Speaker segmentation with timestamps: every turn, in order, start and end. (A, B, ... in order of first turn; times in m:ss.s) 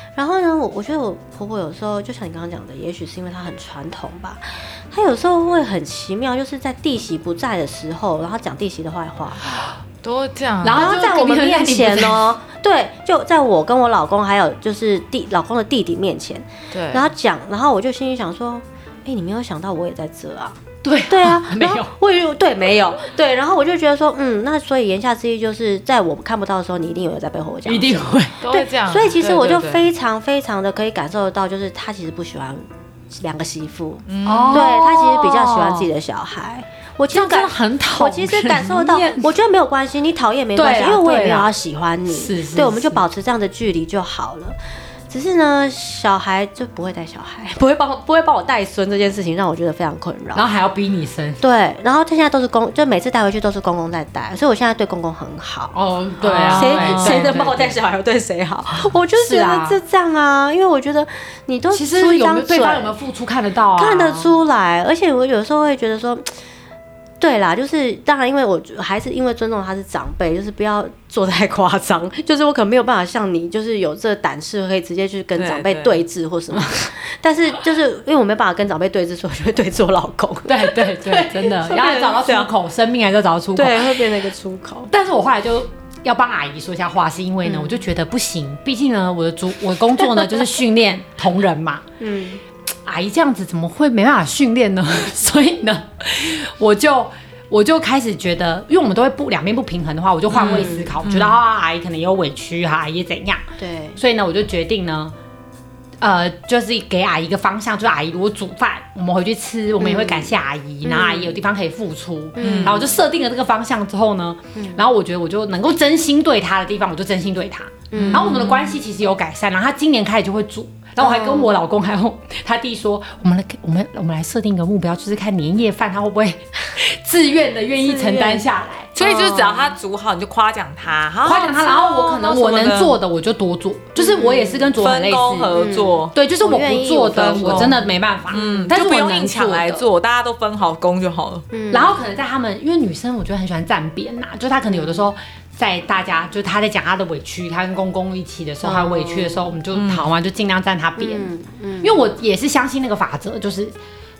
0:00.1-0:09.5 A
0:10.0-0:10.9 B
0:10.6-0:12.3 C
0:10.8-0:44.6 A
0:16.7-0:17.1 B
0:20.8-0:21.9 C
0:27.6-0:28.4 C
0:28.4-0:29.8 B
0:34.1-0:34.7 B
0:34.2-0:35.9 C
0:37.1-0:39.3 C
0:40.6-0:41.5 C
0:42.1-0:43.0 C
0:45.1-0:50.4 A
0:50.3-0:51.4 C
0:51.4-0:55.7 A
0:55.7-0:57.8 C
0:56.2-0:57.3 B
0:56.5-1:02.9 A
0:59.1-0:59.8 C
1:01.7-1:04.3 C
1:03.8-1:06.2 A
1:07.2-1:22.5 A
1:15.4-1:16.0 B
1:20.5-1:24.1 C
1:23.5-1:24.9 A
1:24.9-1:31.8 C
1:27.4-1:27.8 A
1:30.0-1:30.4 A
1:32.0-1:32.4 A
1:32.8-1:43.4 C
1:40.3-1:41.4 B
1:40.4-1:40.9 A
1:43.6-1:44.0 A
1:44.0-1:45.1 C
1:46.0-2:08.9 C
1:49.8-1:50.3 A
1:50.8-1:51.4 A
1:52.4-1:53.0 A
1:52.4-1:52.8 B
1:54.5-1:54.8 A
1:57.9-1:58.3 A
1:57.9-1:58.7 B
2:01.0-2:01.5 A
2:07.8-2:08.4 A
2:08.9-2:13.0 B
2:09.0-2:09.8 A
2:11.2-2:19.8 C
2:14.0-2:14.7 A
2:14.8-2:16.1 B
2:15.5-2:17.9 A
2:17.1-2:21.4 B
2:21.5-2:22.0 A
2:21.7-2:33.7 C
2:24.7-2:25.0 A
2:28.6-2:29.5 A
2:29.7-2:30.0 B
2:31.0-2:32.0 A